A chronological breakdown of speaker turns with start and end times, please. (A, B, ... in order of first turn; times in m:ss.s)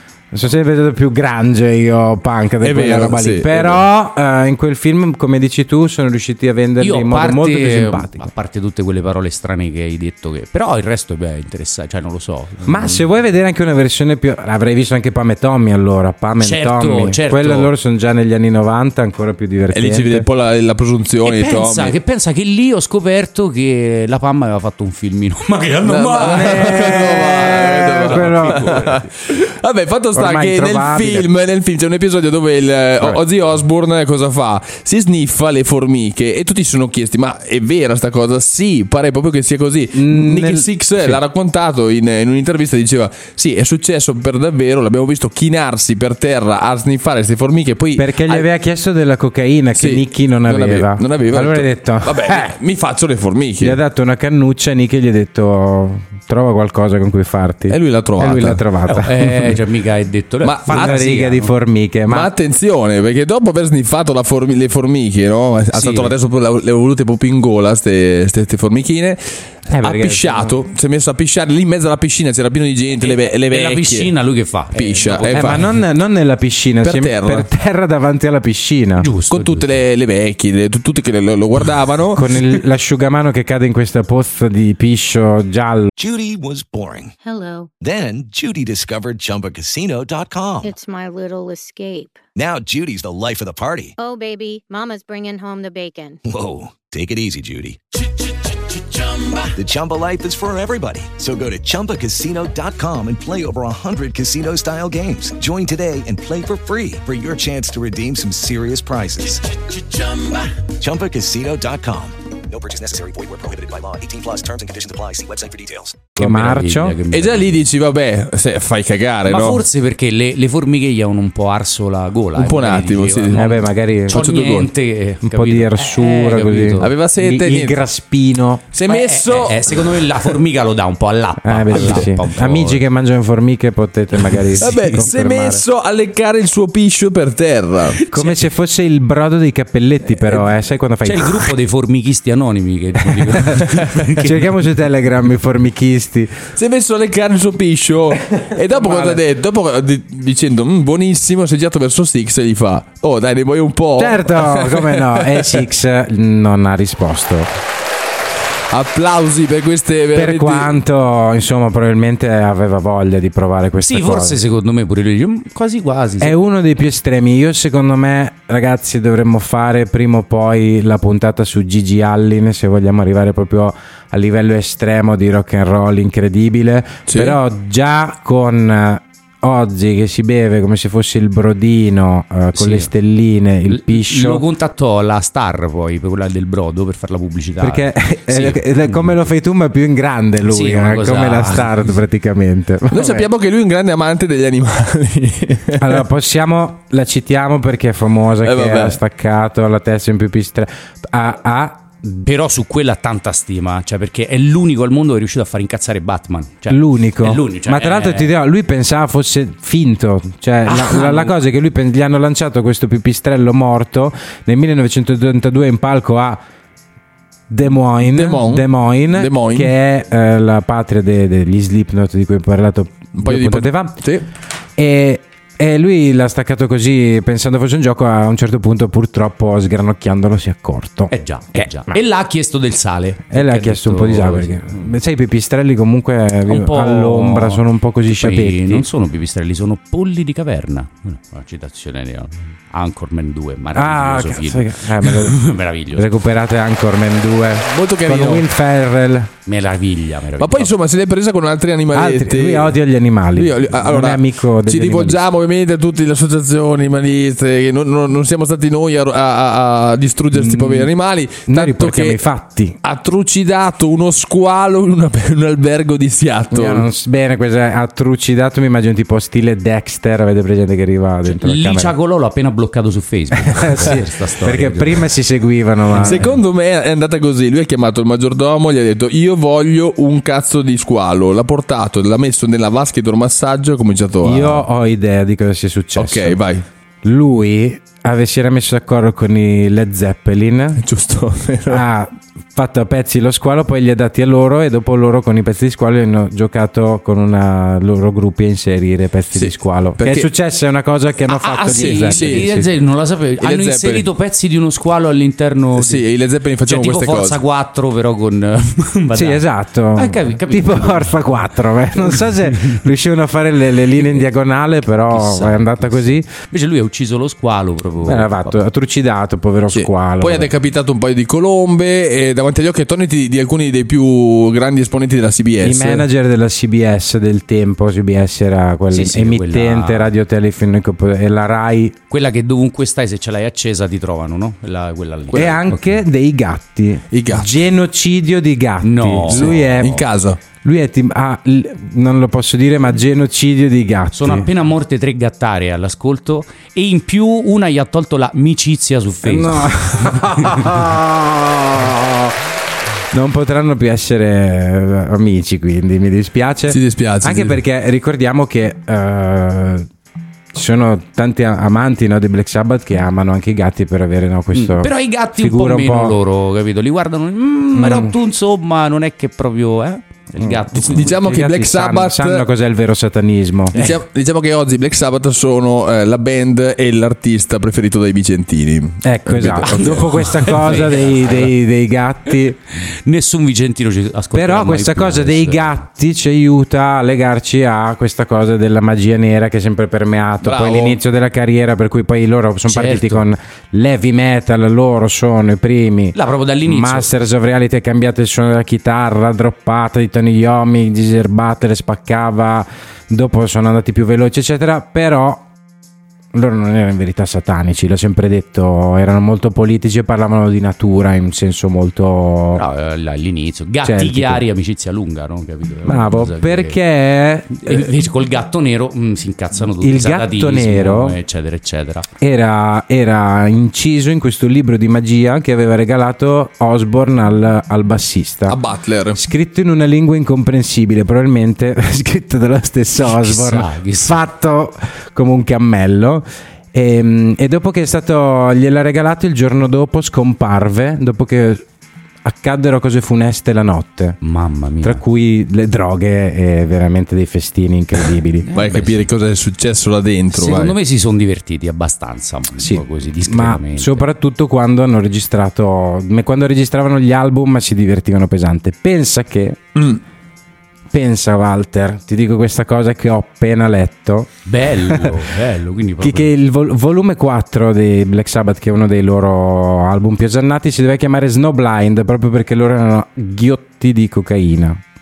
0:00.3-0:08.3 A
0:02.6-0:03.8 B
0:06.8-0:13.0 C
0:12.6-0:20.2 A
0:16.4-0:17.7 C
0:19.7-0:21.9 B
0:21.2-0:29.1 C
0:25.8-0:48.4 B
0:26.2-0:28.8 A
0:30.1-0:31.3 A
0:39.9-0:41.2 A
0:48.0-0:52.5 A
0:49.8-0:53.8 B
0:53.6-0:59.6 A
0:57.7-0:58.6 B
0:58.9-1:01.5 C
1:00.4-1:01.0 B
1:00.7-1:02.3 A
1:02.1-1:14.1 B
1:05.7-1:06.1 C
1:09.7-1:10.6 A
1:13.0-1:15.7 C
1:14.7-1:15.7 B
1:15.3-1:19.1 A
1:16.8-1:17.5 B
1:19.0-1:19.8 C
1:19.3-1:22.2 B
1:22.1-1:25.9 A
1:26.0-1:27.1 D
1:27.2-1:27.7 E
1:27.8-1:30.7 D
1:30.6-1:32.2 E
1:32.3-1:33.9 D
1:34.0-1:36.2 E
1:36.2-1:37.8 D
1:39.5-1:49.4 D
1:50.8-1:56.0 D
1:56.2-1:57.0 A
1:56.2-1:57.6 C
1:57.1-1:59.6 B
1:59.3-2:06.9 C
2:02.3-2:03.4 B
2:03.3-2:04.2 A
2:04.1-2:04.7 B
2:05.2-2:08.6 A
2:06.8-2:07.8 B
2:08.7-2:10.4 B
2:08.9-2:12.8 C
2:11.4-2:15.6 A
2:11.7-2:12.0 B
2:14.6-2:18.0 B
2:14.6-2:15.1 C
2:18.0-2:18.5 C
2:18.1-2:21.5 A
2:21.0-2:24.6 C
2:23.2-2:26.4 A
2:26.6-2:35.6 B
2:28.3-2:29.2 A
2:34.0-2:37.5 A
2:38.7-2:40.7 B
2:40.1-2:44.4 A
2:43.8-2:46.3 C
2:46.2-3:04.4 A
2:57.1-2:57.4 B
3:02.5-3:02.9 C
3:03.7-3:09.2 C
3:07.6-3:13.2 A
3:10.5-3:11.8 C
3:12.9-3:16.0 B
3:15.8-3:22.2 A
3:18.4-3:19.0 B
3:22.2-3:28.3 C
3:26.7-3:36.4 A
3:30.7-3:31.3 C
3:37.5-3:44.0 A
3:38.0-3:39.7 B
3:43.2-3:44.2 B
3:44.8-3:52.0 A
3:51.1-3:54.9 C
3:53.3-3:58.8 A
3:56.5-4:06.1 C
4:03.7-4:05.4 A
4:05.9-4:09.3 A
4:07.6-4:08.4 B
4:09.4-4:10.7 C
4:10.4-4:12.8 B
4:11.9-4:15.2 A
4:13.3-4:22.2 B
4:20.3-4:20.9 A
4:21.4-4:22.8 A
4:22.8-4:26.8 B
4:26.5-4:31.9 A
4:31.2-4:35.0 C
4:33.4-4:36.3 A
4:35.9-4:36.3 C
4:35.9-4:44.6 B
4:44.2-4:46.4 A
4:46.0-4:46.6 B
4:47.0-4:50.8 A
4:50.8-4:51.8 B
4:51.7-5:02.7 A
4:59.3-5:00.3 B
5:01.2-5:06.0 C
5:01.7-5:02.7 B
5:03.4-5:04.0 B
5:05.8-5:07.4 B
5:06.6-5:09.4 C
5:09.1-5:16.3 A
5:09.9-5:11.2 C
5:12.0-5:12.8 C
5:15.1-5:18.6 C
5:18.0-5:20.5 A
5:19.7-5:26.0 B
5:25.6-5:32.0 A
5:28.9-5:30.1 C
5:32.1-5:36.0 C
5:35.3-5:35.6 B
5:35.3-5:40.0 A
5:37.1-5:37.5 B
5:38.8-5:40.0 C
5:39.3-5:40.4 B
5:40.6-5:44.5 A
5:44.1-5:50.8 C
5:49.2-5:52.4 A
5:53.1-5:59.9 A
5:56.7-5:57.6 B
6:00.5-6:06.2 A
6:04.5-6:11.2 C
6:07.7-6:08.1 A
6:10.4-6:13.8 A
6:10.8-6:12.4 B
6:13.7-6:14.0 C
6:13.7-6:20.9 B
6:19.0-6:22.6 A
6:19.6-6:21.5 C
6:22.8-6:25.8 C
6:24.3-6:45.5 A
6:30.4-6:31.0 B
6:32.7-6:33.2 C
6:36.1-6:37.1 C
6:46.3-6:52.6 A
6:52.6-6:56.8 C
6:53.8-6:54.4 A
6:55.8-6:57.9 A
6:57.6-7:02.0 C
6:59.8-7:01.2 A
7:02.2-7:08.6 A
7:08.5-7:09.2 B
7:09.1-7:21.6 A
7:13.0-7:14.2 C
7:22.2-7:24.2 A
7:24.2-7:25.0 C
7:24.8-7:28.5 A
7:28.4-7:29.1 C
7:28.5-7:30.8 B
7:30.3-7:34.0 C
7:32.6-7:39.6 A
7:40.9-7:44.3 A
7:44.4-7:46.3 C
7:44.8-7:45.2 A
7:46.0-7:54.8 A